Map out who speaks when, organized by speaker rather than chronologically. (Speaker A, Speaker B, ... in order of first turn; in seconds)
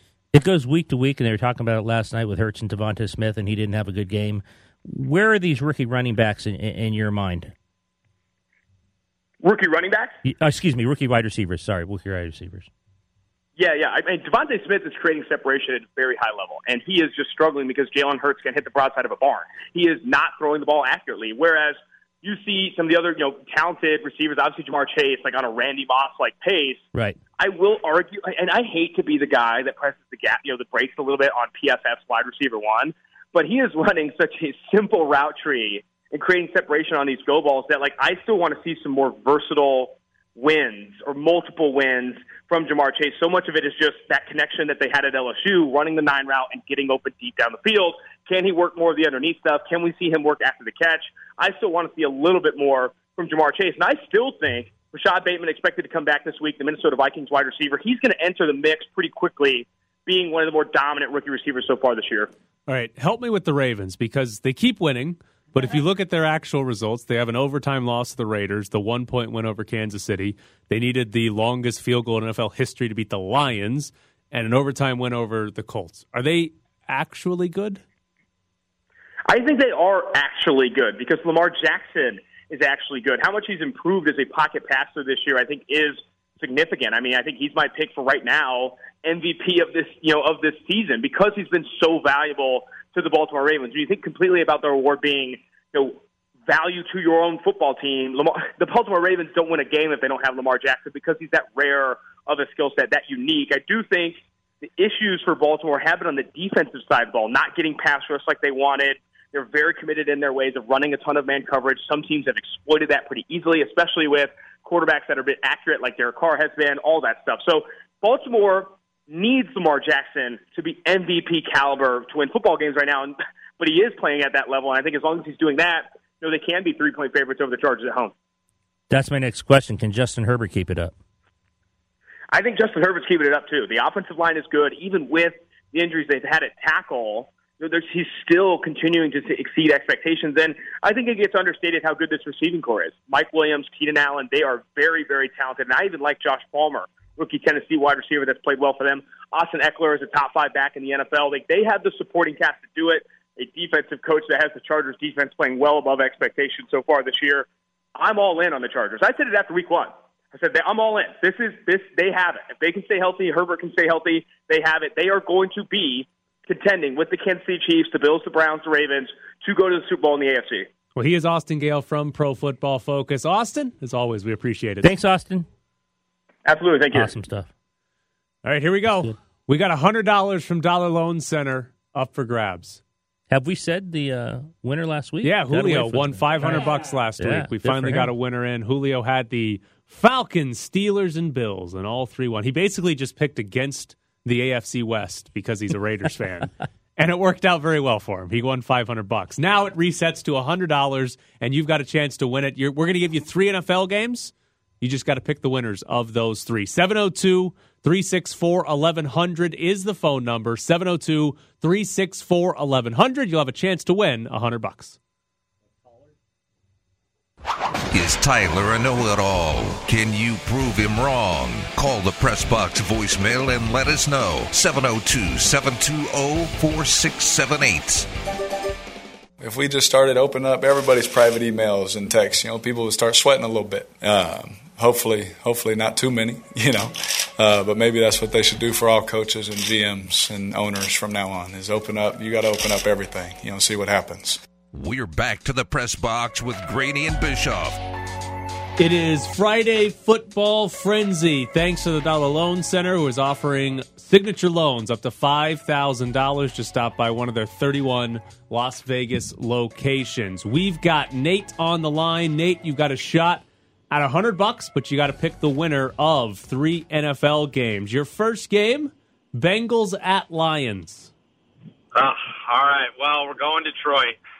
Speaker A: 0.3-7.5, 10.2-12.7, 26.9-27.2, 128.9-130.9, 174.8-175.5, 176.9-177.5, 183.3-188.1
Speaker B: 9.4-10.2, 13.6-26.9, 27.4-62.3, 79.3-128.1, 132.3-170.7, 176.4-177.1
Speaker C: 62.7-77.8, 170.9-174.9, 178.4-182.8, 185.2-215.0, 248.8-271.1
Speaker D: 217.9-228.1, 244.7-247.8
Speaker E: 229.4-244.4
Speaker F: 271.9-274.1